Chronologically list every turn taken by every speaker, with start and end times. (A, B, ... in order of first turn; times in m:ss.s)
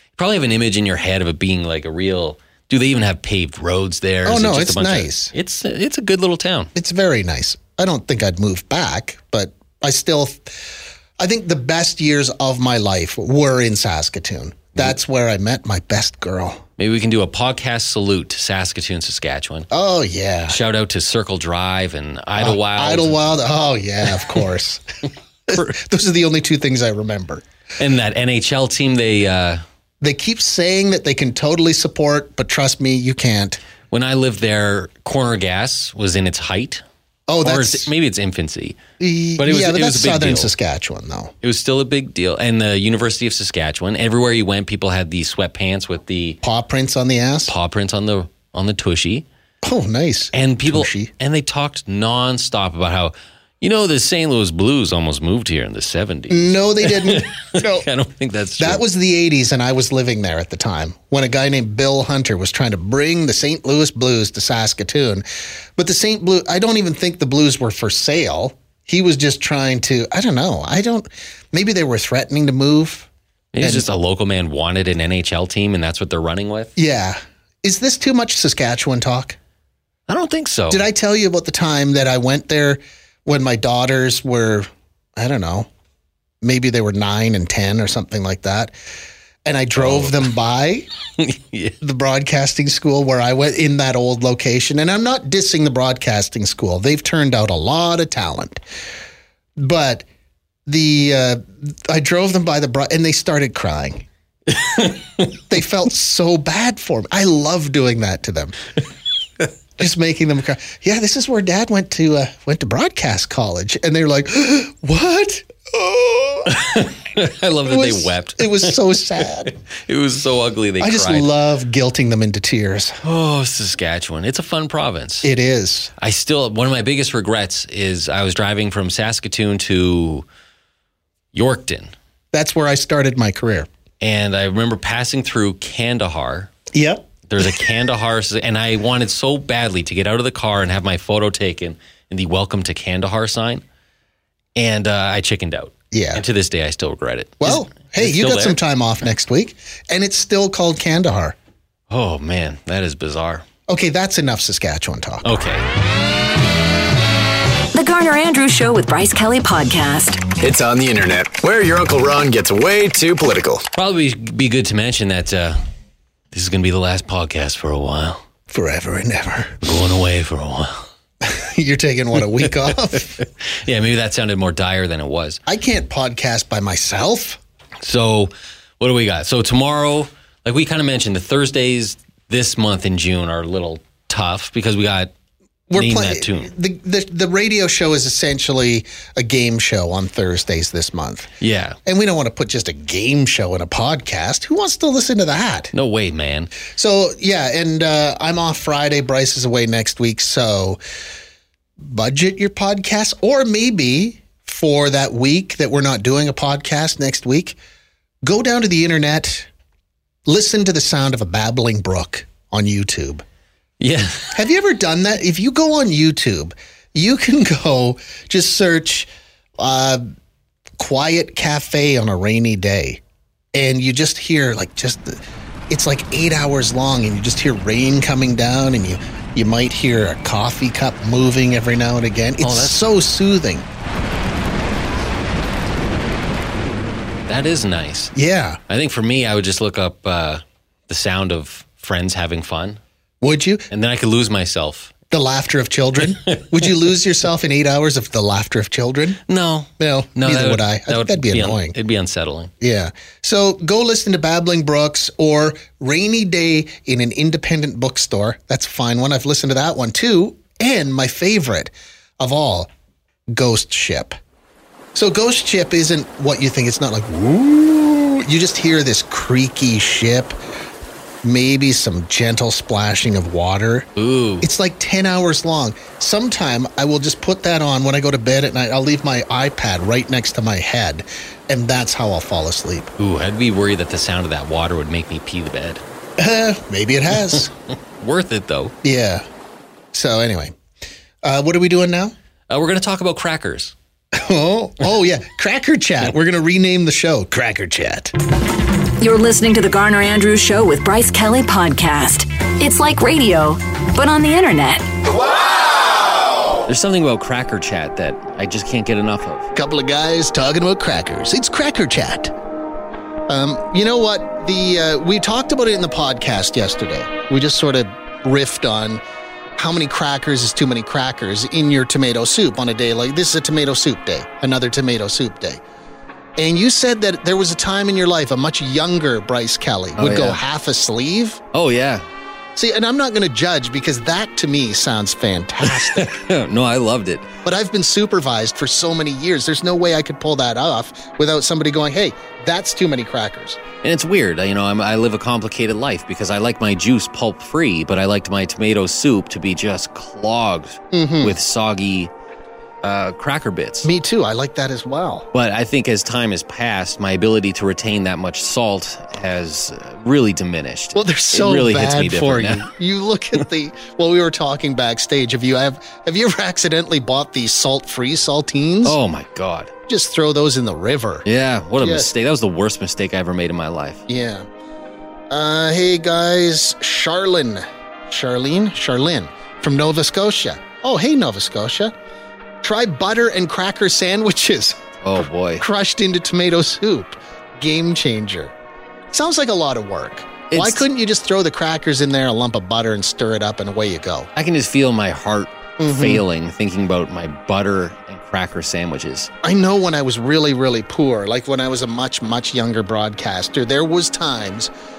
0:00.2-0:06.7 A
0:04.2-0:05.3 B
0:06.7-0:16.6 B
0:16.8-0:19.7 A
0:19.7-0:20.6 B
0:20.5-0:23.2 A
0:22.4-0:24.8 B
0:25.5-0:27.4 B
0:27.8-0:29.6 A
0:30.0-0:33.6 B
0:33.9-0:36.8 A
0:37.3-0:37.9 B
0:37.4-0:38.8 A
0:39.0-0:41.3 B
0:39.4-0:40.5 A
0:41.4-0:46.4 A
0:46.4-0:47.5 B
0:47.5-0:49.2 A
0:49.6-0:51.1 B
0:50.3-0:58.8 A
0:56.3-0:57.9 B
0:58.6-1:05.2 B
1:05.8-1:13.1 B
1:13.5-1:16.7 A
1:13.6-1:13.8 B
1:16.8-1:19.4 B
1:20.1-1:20.8 A
1:20.7-1:25.7 B
1:26.4-1:28.7 B
1:29.4-1:30.9 B
1:29.8-1:30.2 A
1:31.2-1:31.8 A
1:31.8-1:38.6 B
1:39.6-1:40.0 B
1:40.6-1:44.0 B
1:44.7-1:45.0 A
1:45.4-1:48.6 B
1:49.8-1:56.5 B
1:56.5-2:01.3 A
1:57.6-1:59.5 B
2:00.8-2:03.0 B
2:03.0-2:05.3 A
2:05.2-2:05.9 B
2:06.0-2:10.2 A
2:11.3-2:11.9 A
2:12.3-2:13.7 B
2:14.0-2:16.5 A
2:16.7-2:17.6 B
2:17.3-2:23.6 A
2:24.6-2:28.6 A
2:25.9-2:26.2 B
2:27.4-2:31.4 B
2:31.9-2:33.4 A
2:33.7-2:35.2 B
2:35.2-2:35.6 A
2:37.7-2:40.2 C
2:40.4-2:43.6 D
2:43.7-2:45.6 A
2:46.3-2:48.2 A
2:48.5-2:49.6 B
2:49.6-2:50.9 A
2:51.2-2:53.1 B
2:52.7-2:55.4 A
2:55.4-2:57.4 B
2:57.8-3:05.1 A
3:05.7-3:11.3 B
3:05.7-3:06.5 A
3:11.4-3:11.8 A
3:11.8-3:15.7 B
3:15.7-3:16.5 A
3:16.6-3:20.8 B
3:21.8-3:27.6 B
3:28.2-3:29.5 B
3:30.2-3:33.2 B
3:33.8-3:34.4 A
3:34.3-3:40.1 B
3:40.8-3:43.0 B
3:43.5-3:53.7 B
3:52.4-3:52.8 A
3:57.3-3:58.1 A
3:58.1-3:58.6 B
3:58.7-4:02.8 A
4:03.2-4:03.7 B
4:03.7-4:04.9 A
4:05.1-4:09.2 B
4:09.3-4:12.5 A
4:09.8-4:11.8 B
4:12.6-4:22.7 B
4:23.3-4:24.2 B
4:24.9-4:30.3 B
4:31.2-4:33.9 B
4:34.0-4:34.5 A
4:34.4-4:42.9 B
4:43.0-4:45.8 A
4:46.2-4:47.5 B
4:48.0-4:48.7 A
4:48.8-4:49.2 B
4:49.9-4:50.6 B
4:51.2-4:52.1 B
4:52.5-4:53.7 A
4:54.1-4:58.1 B
4:59.0-5:04.9 C
5:06.7-5:09.5 A
5:09.5-5:12.3 B
5:13.3-5:19.0 B
5:19.6-5:25.6 B
5:26.4-5:31.4 B
5:30.0-5:30.4 A
5:31.5-5:32.0 A
5:32.6-5:36.2 B
5:35.7-5:37.3 A
5:37.4-5:43.6 B
5:43.8-5:52.1 A
5:50.9-5:51.4 B
5:52.8-5:53.9 A
5:53.8-5:55.3 B
5:55.3-6:02.7 A
6:00.9-6:09.0 B
6:08.8-6:09.7 A
6:09.9-6:11.2 B
6:11.2-6:14.0 A
6:11.8-6:12.1 B
6:14.1-6:14.5 B
6:15.3-6:21.9 B
6:22.6-6:24.8 B
6:25.0-6:25.6 A
6:25.6-6:28.5 B
6:29.1-6:34.3 B
6:30.5-6:30.8 A
6:34.4-6:39.3 A
6:35.8-6:36.2 B
6:39.4-6:44.7 B